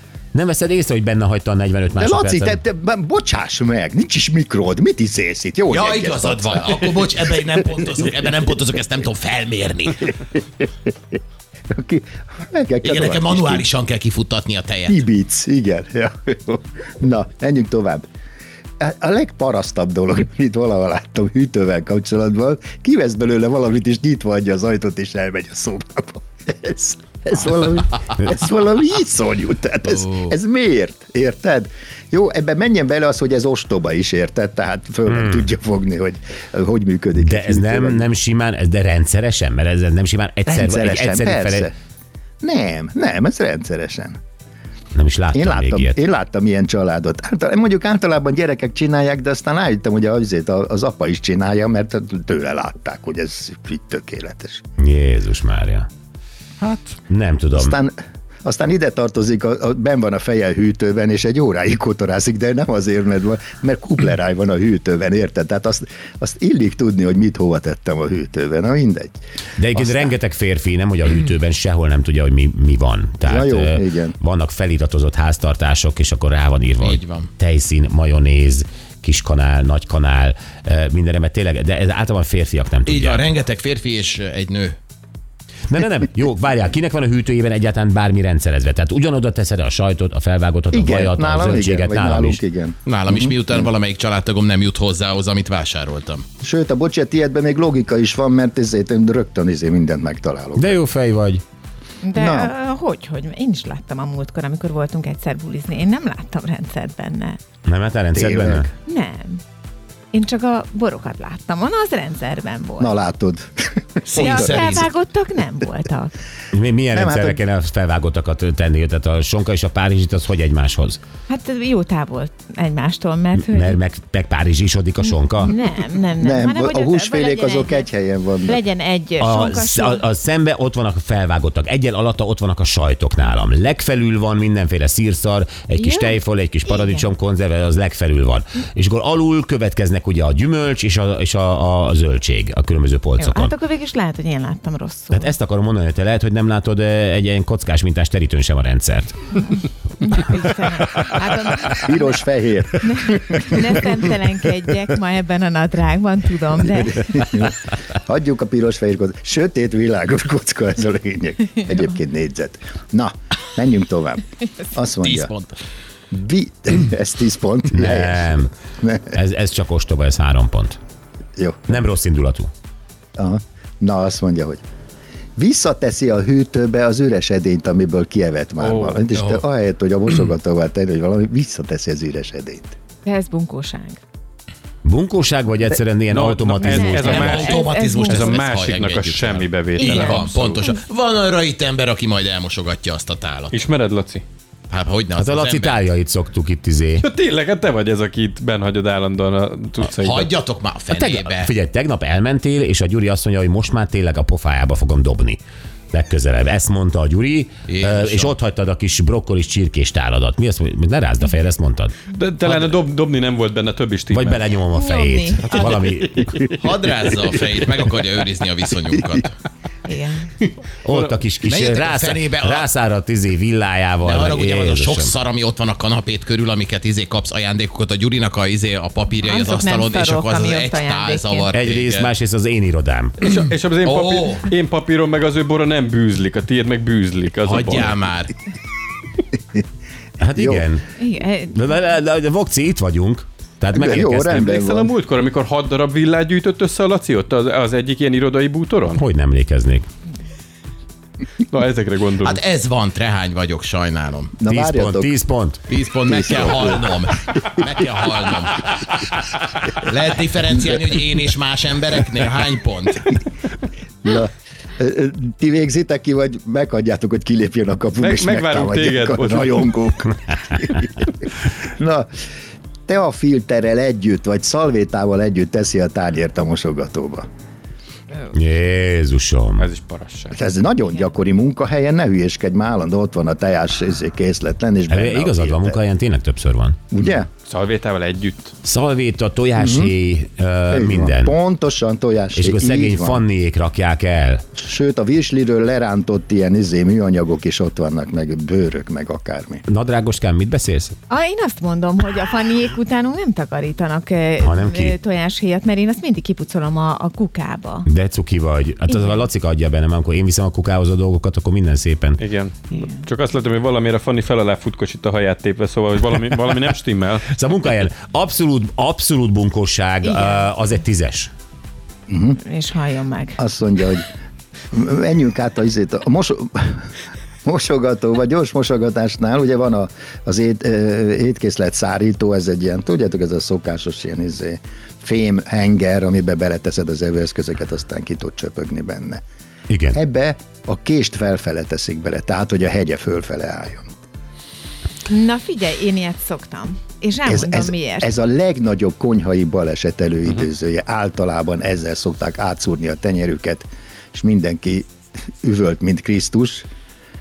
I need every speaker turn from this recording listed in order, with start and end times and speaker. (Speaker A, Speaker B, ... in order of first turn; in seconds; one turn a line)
Speaker A: 0.3-2.6
Speaker B: 2.0-8.1
Speaker C: 5.7-10.2
Speaker B: 11.7-13.7
Speaker C: 12.8-15.0
Speaker B: 14.9-18.0
Speaker B: 18.8-38.0
Speaker C: 29.8-30.3
Speaker A: 35.1-35.5
Speaker A: 37.2-41.7
Speaker B: 40.5-41.7
Speaker B: 42.4-44.2
Speaker A: 44.9-46.0
Speaker B: 45.3-54.6
Speaker A: 54.8-55.9
Speaker A: 57.1-57.8
Speaker B: 57.5-69.2
Speaker A: 69.6-83.2
Speaker B: 69.8-70.1
Speaker B: 73.2-74.2
Speaker C: 76.8-77.3
Speaker C: 82.8-84.8
Speaker A: 85.7-92.4
Speaker B: 90.7-93.6
Speaker C: 92.9-96.2
Speaker B: 96.4-100.8
Speaker A: 100.6-101.4
Speaker D: 102.0-107.4
Speaker B: 102.2-102.5
Speaker A: 107.6-108.7
Speaker B: 108.1-108.7
Speaker D: 108.8-109.4
Speaker D: 110.1-112.9
Speaker B: 112.8-114.9
Speaker C: 114.1-114.9
Speaker D: 114.1-116.1
Speaker A: 116.5-121.0
Speaker B: 116.9-117.4
Speaker D: 121.3-123.8
Speaker A: 123.4-125.6
Speaker D: 125.0-127.9
Speaker B: 126.2-128.6
Speaker D: 128.4-130.0
Speaker A: 129.2-143.5
Speaker D: 135.8-137.0
Speaker D: 143.2-145.3
Speaker A: 145.1-149.1
Speaker D: 149.3-152.2
Speaker B: 151.7-153.9
Speaker D: 152.8-157.2
Speaker B: 156.6-165.3
Speaker C: 165.0-165.5
Speaker B: 166.1-169.1
Speaker A: 167.7-168.5
Speaker A: 169.1-170.8
Speaker B: 171.4-171.8
Speaker A: 171.7-172.5
Speaker B: 173.2-174.6
Speaker B: 175.4-182.8
Speaker E: 178.6-179.1
Speaker C: 179.1-179.4
Speaker D: 183.0-184.0
Speaker A: 184.8-187.4
Speaker E: 186.1-190.6
Speaker D: 186.6-188.4
Speaker C: 187.0-193.6
Speaker D: 189.8-190.7
Speaker E: 193.5-194.2
Speaker C: 194.7-195.8
Speaker A: 195.2-197.1
Speaker E: 197.0-200.3
Speaker C: 200.0-201.5
Speaker A: 200.9-205.4
Speaker A: 205.9-211.9
Speaker C: 207.7-208.3
Speaker E: 212.1-214.4
Speaker A: 214.1-216.5
Speaker D: 214.7-215.9
Speaker E: 215.4-216.6
Speaker C: 216.6-219.3
Speaker D: 219.8-220.3
Speaker A: 220.8-225.1
Speaker E: 220.9-221.1
Speaker C: 221.4-222.7
Speaker C: 224.0-232.1
Speaker D: 229.2-231.5
Speaker A: 231.5-233.2
Speaker E: 233.2-238.0
Speaker C: 233.2-234.5
Speaker C: 237.4-238.3
Speaker A: 240.2-240.8
Speaker B: 240.4-240.6
Speaker D: 241.0-241.7
Speaker A: 241.5-244.5
Speaker B: 243.7-244.9
Speaker E: 244.2-249.0
Speaker A: 249.0-249.9
Speaker E: 251.4-252.4
Speaker C: 252.2-254.3
Speaker B: 254.4-255.1
Speaker A: 254.4-255.6
Speaker C: 255.7-258.8
Speaker B: 256.0-257.6
Speaker C: 259.8-263.1
Speaker B: 264.0-272.1
Speaker E: 268.0-269.7
Speaker B: 272.9-277.2
Speaker A: 278.3-279.6
Speaker E: 279.6-280.4
Speaker B: 280.3-285.8
Speaker A: 284.9-286.8
Speaker B: 286.9-287.3
Speaker E: 287.4-288.5
Speaker A: 288.6-291.3
Speaker B: 289.6-289.9
Speaker B: 290.7-293.2
Speaker A: 292.4-294.4
Speaker B: 294.6-299.6
Speaker A: 299.7-300.9
Speaker D: 301.1-307.9
Speaker A: 304.4-304.9
Speaker A: 307.9-312.2
Speaker D: 308.9-309.2
Speaker E: 312.2-317.2
Speaker D: 312.7-313.0
Speaker A: 317.3-321.3
Speaker D: 320.1-320.4
Speaker B: 322.1-322.4
Speaker D: 322.4-323.4
Speaker B: 323.4-324.1
Speaker B: 324.7-326.8
Speaker B: 327.4-339.2
Speaker A: 339.7-340.0
Speaker B: 339.9-343.9
Speaker D: 345.1-348.1
Speaker B: 347.2-354.9
Speaker B: 355.4-356.6